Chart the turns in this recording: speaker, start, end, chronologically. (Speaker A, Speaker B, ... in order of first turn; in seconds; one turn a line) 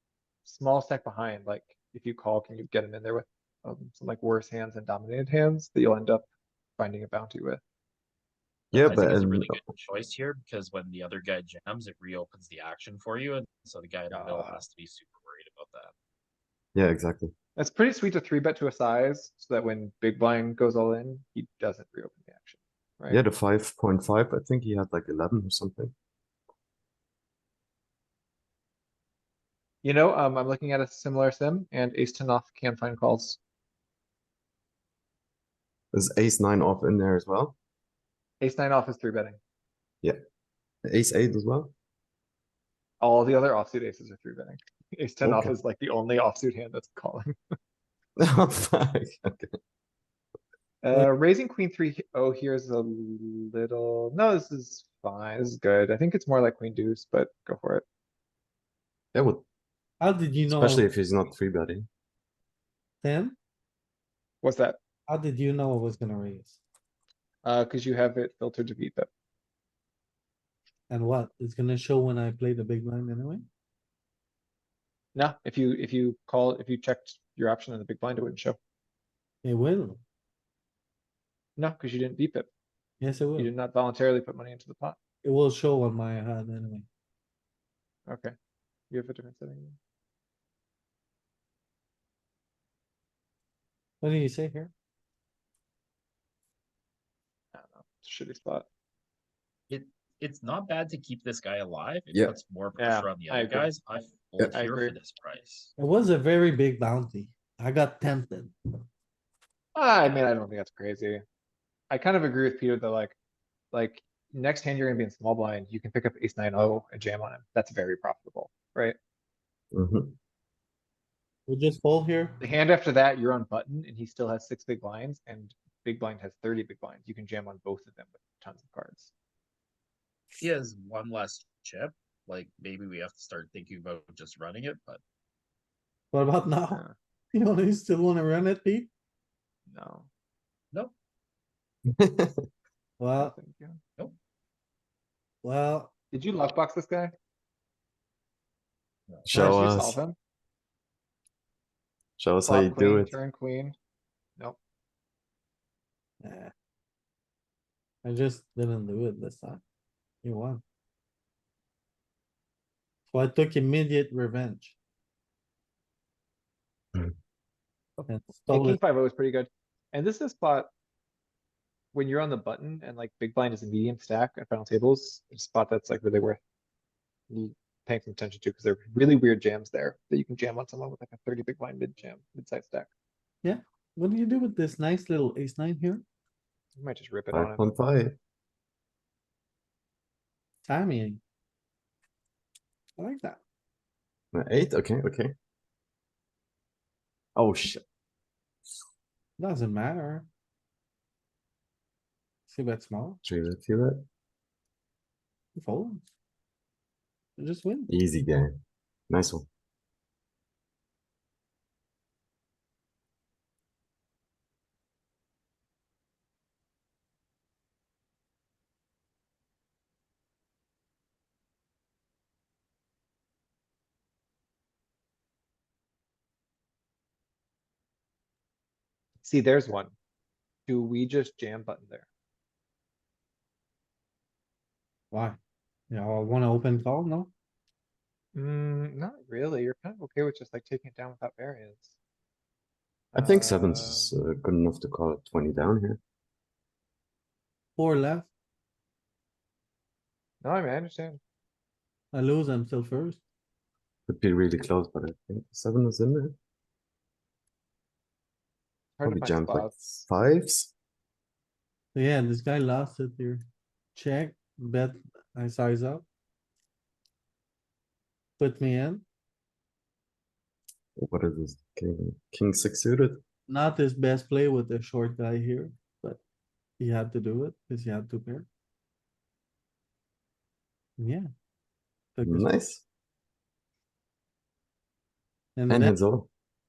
Speaker A: 0.5-6.3
Speaker A: 6.8-7.6
Speaker B: 8.7-9.6
Speaker C: 8.7-15.9
Speaker A: 14.1-14.6
Speaker B: 16.8-17.3
Speaker A: 17.6-23.2
Speaker B: 23.1-25.9
Speaker A: 29.8-33.4
Speaker B: 35.9-37.5
Speaker A: 38.4-39.4
Speaker B: 40.9-41.7
Speaker A: 43.0-47.4
Speaker B: 45.2-45.5
Speaker B: 48.2-49.5
Speaker A: 50.8-57.8
Speaker B: 59.1-59.4
Speaker D: 60.0-60.9
Speaker B: 60.5-61.9
Speaker D: 63.0-63.4
Speaker A: 64.4-64.8
Speaker D: 65.1-66.6
Speaker A: 67.4-69.1
Speaker D: 70.9-73.5
Speaker A: 75.2-78.6
Speaker D: 79.4-80.0
Speaker A: 81.6-82.5
Speaker D: 83.0-83.5
Speaker A: 83.4-85.0
Speaker D: 85.2-86.9
Speaker A: 88.1-88.3
Speaker A: 88.9-89.8
Speaker D: 94.0-94.7
Speaker A: 97.5-98.7
Speaker C: 99.7-105.7
Speaker B: 102.1-102.4
Speaker A: 102.8-103.7
Speaker A: 104.4-105.0
Speaker D: 105.8-108.5
Speaker A: 109.8-111.2
Speaker A: 111.9-113.2
Speaker A: 113.7-119.0
Speaker B: 119.7-120.2
Speaker D: 121.5-122.4
Speaker A: 122.4-129.1
Speaker C: 130.4-135.0
Speaker D: 136.1-136.8
Speaker D: 137.3-138.9
Speaker A: 139.7-140.1
Speaker B: 141.9-142.4
Speaker D: 143.0-143.3
Speaker A: 143.2-143.8
Speaker D: 145.4-145.9
Speaker A: 146.1-147.1
Speaker B: 149.2-150.0
Speaker A: 149.3-150.2
Speaker B: 152.2-153.2
Speaker A: 152.4-153.8
Speaker D: 156.2-156.5
Speaker D: 158.0-159.6
Speaker D: 160.2-160.6
Speaker D: 163.1-164.8
Speaker A: 168.0-170.7
Speaker D: 168.1-168.8
Speaker A: 171.9-176.4
Speaker A: 177.3-182.9
Speaker D: 183.4-186.0
Speaker A: 186.8-187.7
Speaker B: 187.3-188.2
Speaker D: 190.7-191.2
Speaker D: 193.0-193.4
Speaker B: 194.3-195.3
Speaker B: 197.4-197.8
Speaker D: 199.4-200.3
Speaker D: 202.5-203.2
Speaker B: 203.2-204.1
Speaker D: 205.6-206.0
Speaker D: 207.4-207.9
Speaker B: 207.9-209.5
Speaker A: 229.2-229.9
Speaker A: 230.7-232.1
Speaker D: 235.1-235.4
Speaker D: 235.9-237.3
Speaker A: 238.3-241.9
Speaker A: 243.1-244.1
Speaker B: 243.2-246.0
Speaker D: 247.8-248.3
Speaker A: 250.4-251.2
Speaker D: 252.1-253.2
Speaker B: 254.1-256.4
Speaker A: 259.0-260.0
Speaker B: 259.0-260.7
Speaker D: 261.9-263.4
Speaker D: 263.9-266.1
Speaker D: 268.4-269.0
Speaker B: 271.0-273.2
Speaker D: 273.5-276.2
Speaker D: 276.8-278.5
Speaker D: 281.0-281.3
Speaker D: 282.2-282.5
Speaker B: 282.2-282.8
Speaker D: 285.6-286.0
Speaker B: 285.7-286.3